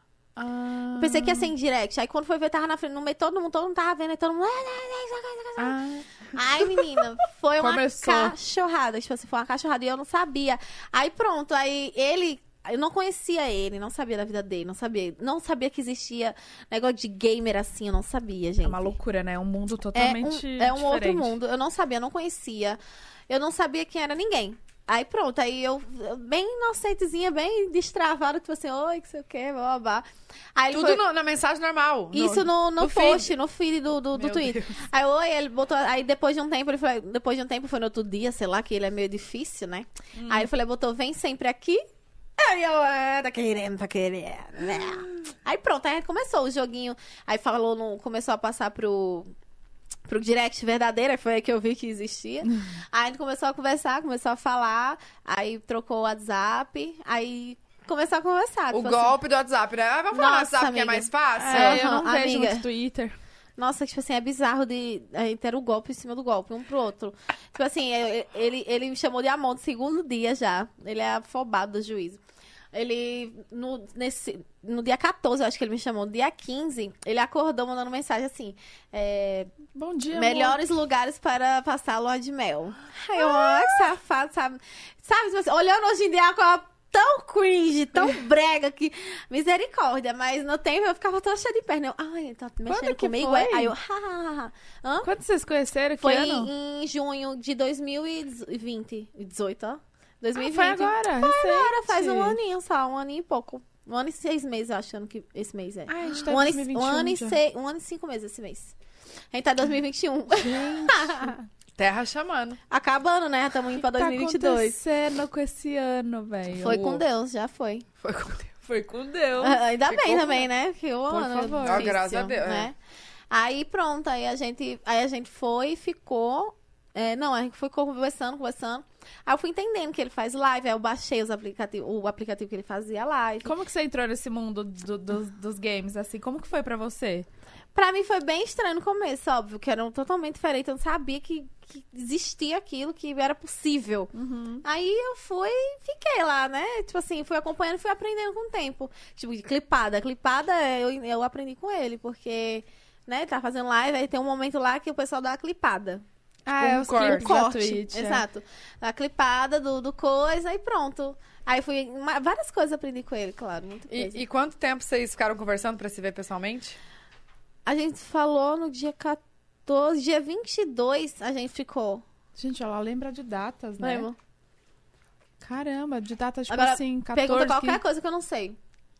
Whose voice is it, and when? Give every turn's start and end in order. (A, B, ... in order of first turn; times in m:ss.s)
0:00.4-0:01.5 A
0:01.0-0:05.8 B
0:05.6-0:07.0 A
0:06.3-0:18.9 B
0:07.6-0:08.3 A
0:18.6-0:21.4 A
0:19.9-0:31.0 B
0:30.7-0:33.3 C
0:32.1-0:41.8 B
0:34.1-0:34.8 C
0:40.2-0:40.5 A
0:42.4-0:49.3 B
0:50.1-0:59.2 B
0:58.7-1:01.8 C
1:00.1-1:02.7 B
1:01.4-1:03.2 A
1:03.6-1:12.2 B
1:12.7-1:19.5 B
1:19.7-1:20.6 A
1:20.1-1:35.1 B
1:23.3-1:23.6 A
1:32.6-1:33.7 A
1:35.0-1:36.5 A
1:36.0-1:48.7 B
1:40.4-1:42.4 A
1:45.9-1:47.4 A
1:49.3-1:51.4 B
1:50.3-1:51.3 A
1:51.8-1:52.6 C
1:52.7-1:54.8 B
1:53.7-1:56.8 A
1:56.6-1:57.0 C
1:56.6-1:57.8 B
1:58.0-1:58.6 C
1:58.6-1:59.6 A
1:59.4-2:02.7 B
1:59.9-2:00.4 C
2:01.1-2:01.9 A
2:01.6-2:02.7 C
2:03.3-2:13.5 B
2:13.4-2:17.2 A
2:17.7-2:24.1 B
2:24.1-2:24.6 A
2:24.6-2:36.0 B
2:36.4-2:38.2 A
2:36.6-2:44.2 B
2:36.8-2:37.3 C
2:43.9-2:46.8 C
2:47.6-2:52.0 B
2:52.4-2:54.1 A
2:53.8-2:54.2 B
2:55.4-2:57.8 A
2:56.5-2:58.6 B